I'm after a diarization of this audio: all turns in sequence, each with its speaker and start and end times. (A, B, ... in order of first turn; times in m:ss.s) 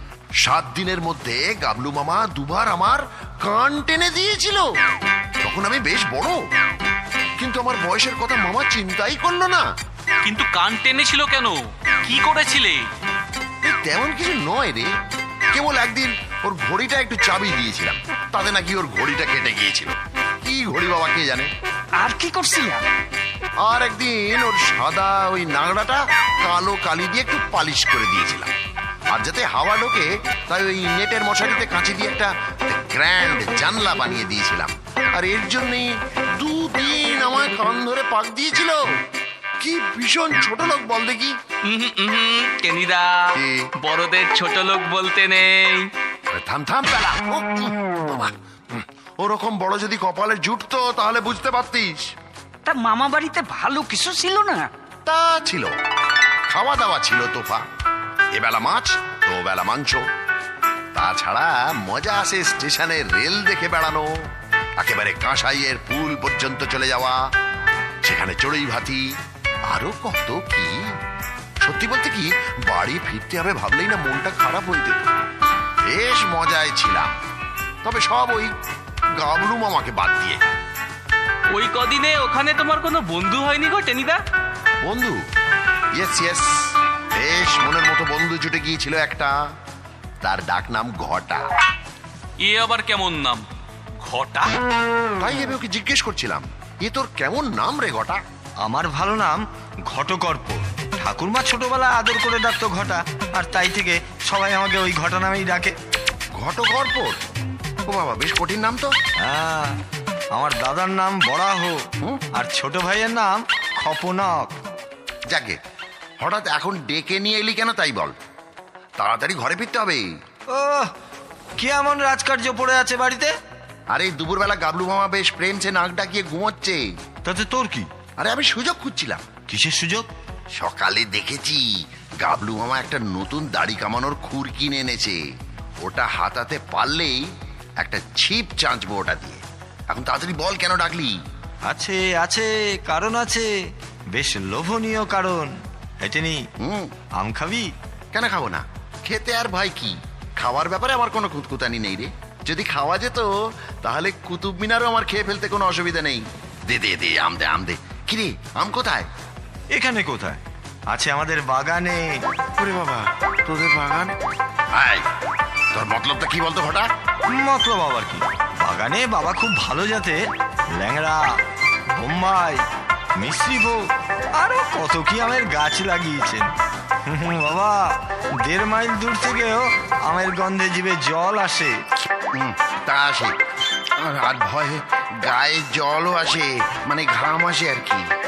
0:00.4-0:04.7 A
0:05.4-0:06.4 A
0:07.4-0:09.6 A
0:10.2-0:12.8 B
0:13.6-0:14.9 A
0:15.5-0:21.5 A
0:22.0-0:22.8 C
0:23.6-0:28.5 A
0:29.1-0:38.8 A
0:39.6-0:41.3 A
0:41.6-0:45.9 D
0:43.3-0:43.6 A
0:46.3-0:52.0 A
0:52.6-0:54.7 C
0:55.0-0:55.7 A
0:56.5-0:57.6 A
0:58.3-1:00.0 A
1:01.0-1:04.1 A
1:04.8-1:07.2 A
1:08.0-1:09.0 A
1:09.7-1:10.8 A
1:11.6-1:15.1 A
1:15.9-1:17.1 A
1:17.8-1:18.5 A
1:19.2-1:20.4 A
1:21.5-1:24.2 D
1:24.8-1:25.2 A
1:26.0-1:29.3 A
1:30.2-1:31.4 A
1:32.4-1:33.4 B
1:34.0-1:34.6 B
1:35.2-1:38.2 A
1:38.6-1:45.8 E
1:46.4-1:47.2 A
1:47.9-1:48.9 A
1:49.2-1:49.8 E
1:50.3-1:54.5 E
1:55.3-1:55.6 A
1:56.2-1:58.2 A
1:59.0-2:00.0 A
2:00.5-2:00.9 E
2:01.6-2:03.3 E
2:03.9-2:06.8 A
2:07.2-2:07.9 E
2:08.2-2:09.3 A
2:09.5-2:10.1 E
2:10.6-2:11.7 A
2:12.2-2:15.2 A
2:15.8-2:17.2 A
2:17.8-2:21.2 A
2:21.7-2:23.5 E
2:24.1-2:26.4 E
2:26.6-2:26.9 A
2:27.2-2:27.7 E
2:28.1-2:33.3 A
2:33.8-2:39.1 A
2:39.7-2:42.2 E
2:42.6-2:44.1 A
2:44.7-2:45.0 A
2:45.7-2:46.9 A
2:47.3-2:50.2 E
2:50.8-2:51.4 E
2:52.0-2:52.6 E
2:53.2-2:53.8 E
2:54.4-2:56.5 E
2:57.1-2:57.9 E
2:58.4-3:01.8 E
3:02.3-3:03.4 A
3:04.0-3:08.1 A